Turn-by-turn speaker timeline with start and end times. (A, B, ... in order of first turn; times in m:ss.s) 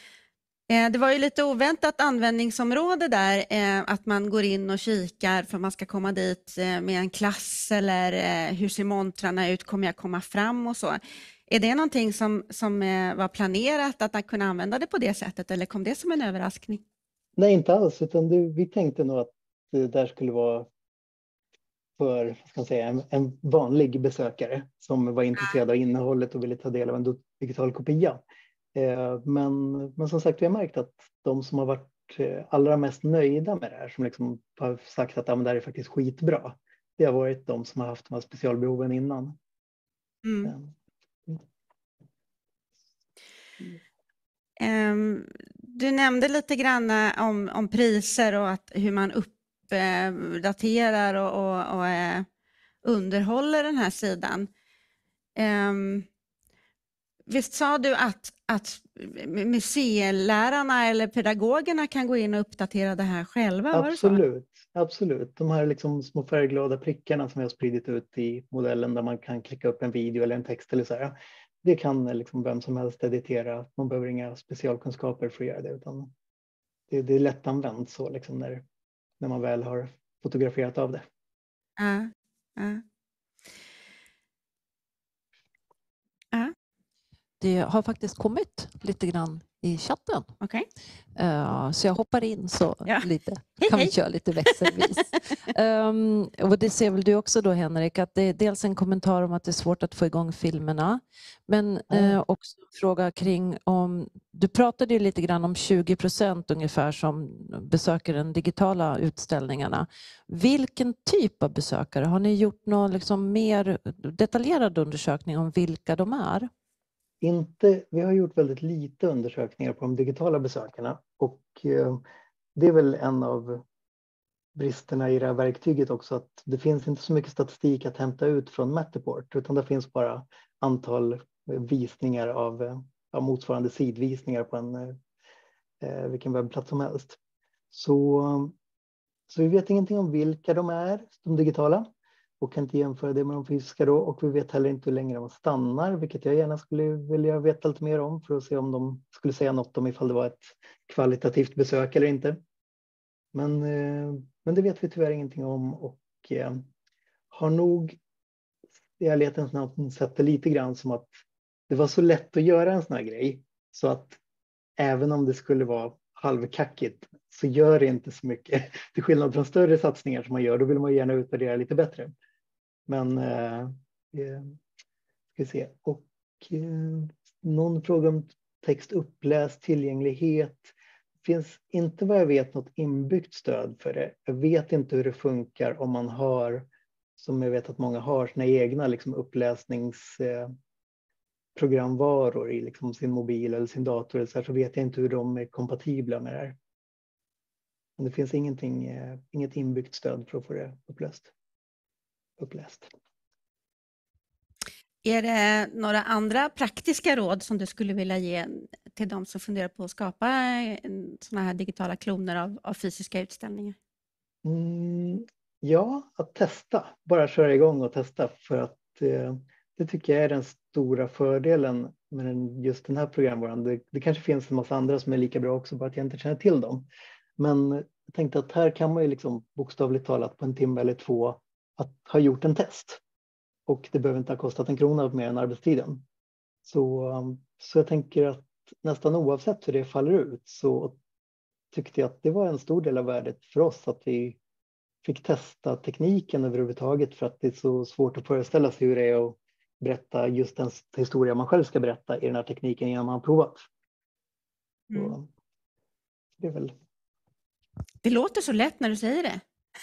0:00.7-0:16.8 A
0:17.4-0:20.6 B
0:22.0-0:28.2 B
0:28.8-0:39.3 B
0:40.2-0:40.5 A
0:40.4-0:40.7 B
0:44.6-0:52.2 A
0:52.8-0:54.5 A
0:55.4-0:56.1 A
0:57.3-1:04.2 A
1:03.7-1:16.1 B
1:16.9-1:18.6 B
1:19.2-1:21.0 B
1:21.8-1:22.8 A
1:27.4-1:30.3 C
1:31.2-1:56.5 C
1:33.6-1:33.9 A
1:34.5-1:34.9 A
1:41.9-1:42.2 B
1:57.2-2:02.0 B
2:02.5-2:03.6 B
2:04.5-2:15.0 B
2:15.8-2:17.2 B
2:17.7-2:18.5 B
2:19.3-2:21.8 B
2:22.4-2:32.4 B
2:33.3-2:36.6 B
2:37.3-2:38.0 B
2:39.0-2:41.1 B
2:41.7-2:44.2 B
2:44.8-2:52.1 B
2:52.9-2:54.5 B
2:55.3-3:10.5 B
3:11.6-3:16.6 B
3:18.0-3:21.3 B
3:22.4-3:22.9 B
3:25.0-3:33.8 A
3:34.4-3:46.9 B
3:47.4-3:53.0 B
3:53.7-3:56.0 B
3:56.6-4:00.9 B
4:01.7-4:04.4 B
4:05.0-4:13.6 B
4:14.9-4:15.2 A
4:14.9-4:15.2 B
4:16.4-4:16.7 B
4:18.0-4:19.4 A